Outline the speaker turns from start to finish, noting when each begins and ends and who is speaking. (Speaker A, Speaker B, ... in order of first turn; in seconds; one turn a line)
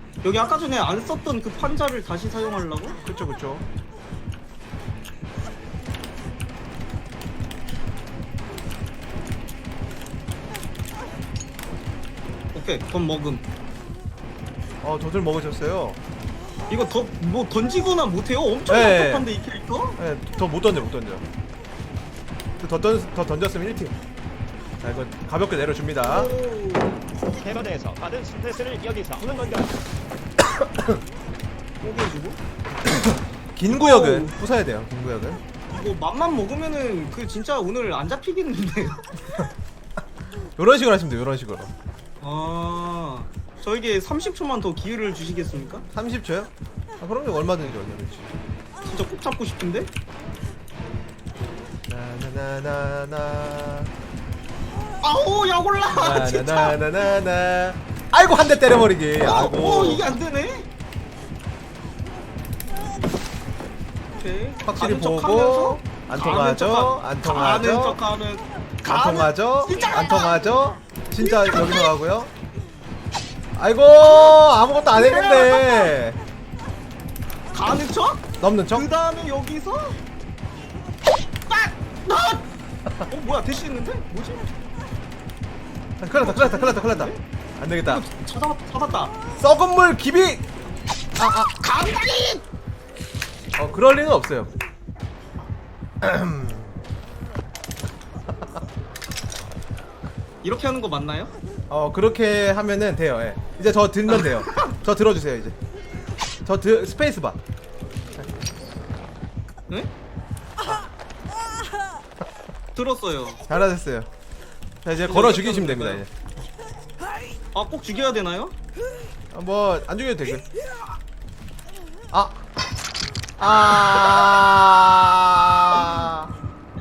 Speaker A: 0.2-3.0
Speaker B: 3.0-3.6
Speaker A: 12.5-13.4
Speaker B: 14.8-16.0
Speaker A: 16.7-20.0
Speaker B: 18.7-19.3
Speaker B: 20.0-21.2
Speaker B: 22.6-23.9
Speaker B: 24.8-26.3
Speaker A: 26.0-27.1
Speaker C: 27.4-29.7
Speaker B: 30.6-30.9
Speaker A: 31.8-32.4
Speaker B: 33.0-35.4
Speaker A: 33.7-34.3
Speaker A: 35.7-39.4
Speaker B: 40.6-41.7
Speaker A: 42.2-45.9
Speaker B: 45.9-48.3
Speaker A: 48.9-49.9
Speaker B: 51.9-53.9
Speaker A: 55.0-56.8
Speaker B: 55.9-60.1
Speaker A: 59.2-60.7
Speaker A: 64.1-70.5
Speaker B: 64.6-68.0
Speaker B: 68.8-72.3
Speaker A: 71.2-72.0
Speaker B: 73.5-76.2
Speaker A: 74.0-74.4
Speaker A: 74.9-76.0
Speaker A: 77.5-80.0
Speaker B: 78.4-78.9
Speaker A: 81.5-82.5
Speaker A: 83.1-84.5
Speaker B: 86.0-88.0
Speaker A: 86.2-87.2
Speaker A: 87.8-89.1
Speaker B: 89.4-90.5
Speaker B: 91.2-91.5
Speaker A: 91.5-92.4
Speaker B: 93.5-94.5
Speaker B: 96.0-96.8
Speaker A: 100.4-101.3
Speaker B: 101.7-105.6
Speaker A: 104.1-104.8
Speaker B: 106.5-107.4
Speaker A: 112.7-113.4
Speaker B: 113.5-114.1
Speaker B: 114.8-116.1
Speaker A: 115.0-116.0
Speaker A: 117.5-118.5
Speaker B: 119.3-120.5
Speaker B: 122.1-122.4
Speaker B: 123.4-126.3
Speaker A: 125.7-126.1